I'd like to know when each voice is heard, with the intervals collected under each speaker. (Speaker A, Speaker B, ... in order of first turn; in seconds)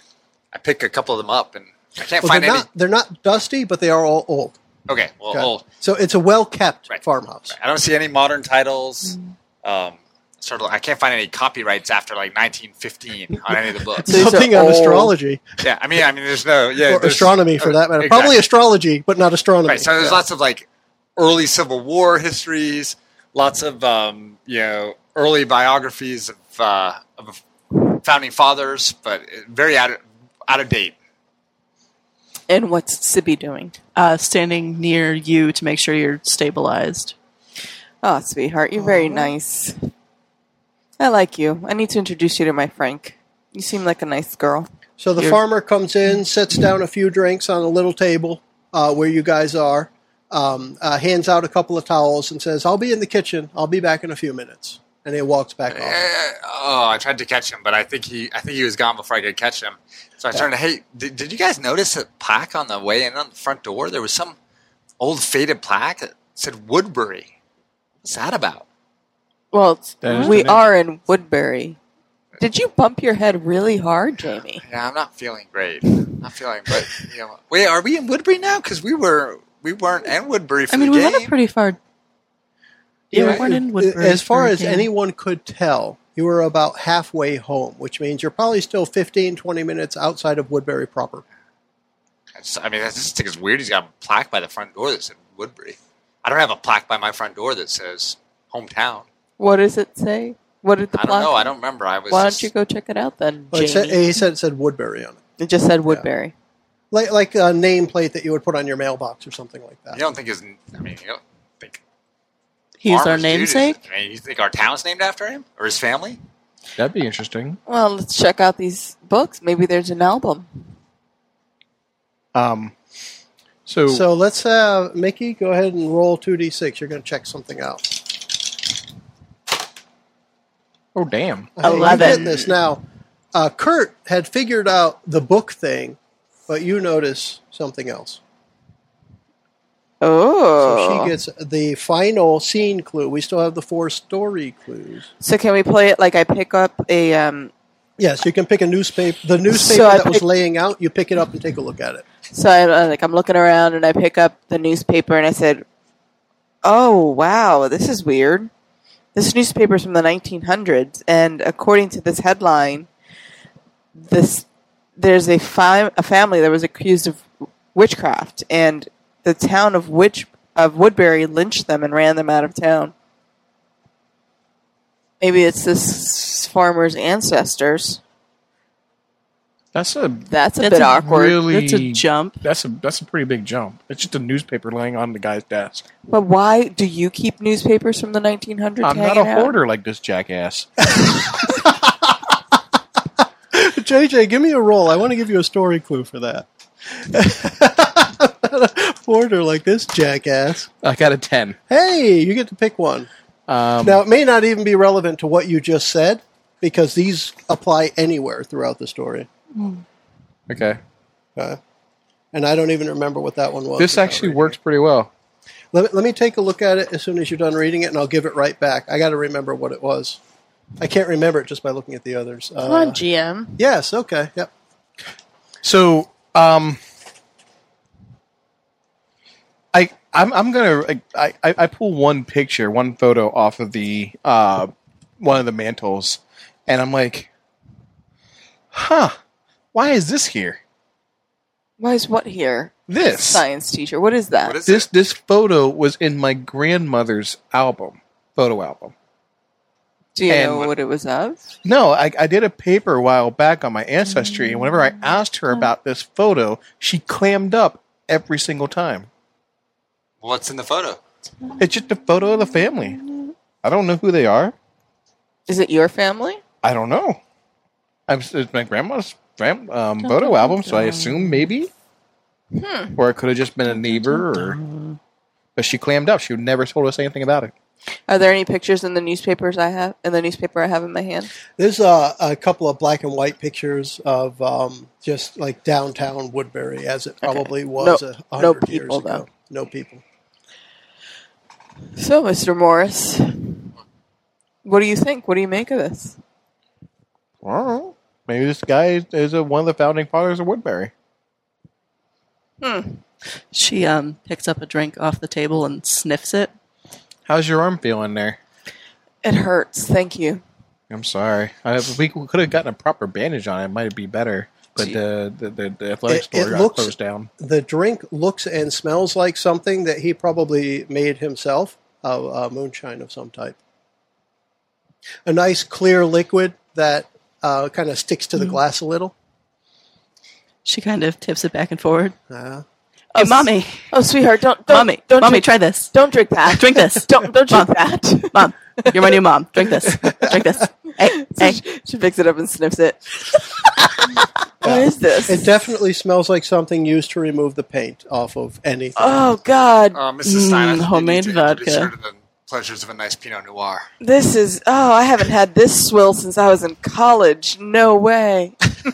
Speaker A: 0.5-2.7, 4.9-5.6, 6.9-14.1, 15.6-18.4, 19.6-30.9, 55.7-64.3, 65.0-67.3, 68.0-68.6, 74.6-81.3, 92.3-99.0, 100.9-102.5, 109.9-111.8, 112.8-116.2, 244.4-244.9, 260.2-261.0, 349.9-353.9
Speaker B: 2.2-4.6, 5.3-7.5, 14.0-15.4, 16.8-20.2, 45.0-56.0, 83.1-91.2, 103.5-105.2, 106.9-110.0, 123.9-128.1, 131.6-132.8, 133.3-138.2, 140.6-145.1, 148.0-152.0, 191.0-191.9, 193.5-200.7, 201.7-203.1, 203.8-209.3, 212.3-214.6, 215.7-220.2, 220.8-223.0, 223.6-224.5, 281.6-290.0, 316.1-323.6, 325.2-329.1, 332.3-332.6, 344.6-349.2
Speaker C: 14.1-15.1, 32.5-33.7, 38.0-39.8, 41.0-44.7, 69.5-71.8, 72.4-74.6, 99.4-101.5, 102.1-104.0, 105.4-106.3, 117.7-120.5, 140.0-141.1, 145.2-147.5, 149.5-150.2, 152.3-155.6, 156.6-158.5, 159.1-162.9, 163.9-164.4, 165.0-172.9, 175.2-178.0, 180.3-181.4, 186.1-189.6, 222.6-223.6, 241.8-244.6, 250.1-251.5, 265.5-266.4, 272.5-272.9, 278.1-281.3, 287.2-289.2, 291.9-293.7, 294.6-296.2, 302.6-303.0, 309.2-310.4, 333.1-338.9, 341.1-343.7, 344.6-345.5, 348.9-350.0, 354.0-358.6
Speaker D: 34.0-37.1, 70.1-70.4, 80.7-81.8, 83.1-84.9, 112.8-113.8, 131.6-132.3, 180.6-182.4, 270.0-271.5, 273.7-274.9, 303.5-306.5, 330.6-332.1, 333.1-333.9, 334.7-335.9, 336.5-341.6, 350.2-351.9
Speaker E: 70.0-70.7, 116.8-117.6, 122.3-122.7, 123.7-124.0, 130.9-131.6, 179.7-180.3, 180.9-185.8, 188.8-190.7, 200.8-201.6, 203.5-204.0, 210.5-210.8, 213.8-215.1, 225.6-226.8, 229.7-237.3, 238.7-239.2, 239.7-240.6, 242.9-243.4, 244.7-248.9, 250.3-250.7, 251.6-259.1, 261.6-263.1, 263.6-264.5, 266.6-267.2, 268.1-271.7, 272.9-274.6, 275.6-277.5, 297.4-300.9, 307.3-308.4, 310.9-317.3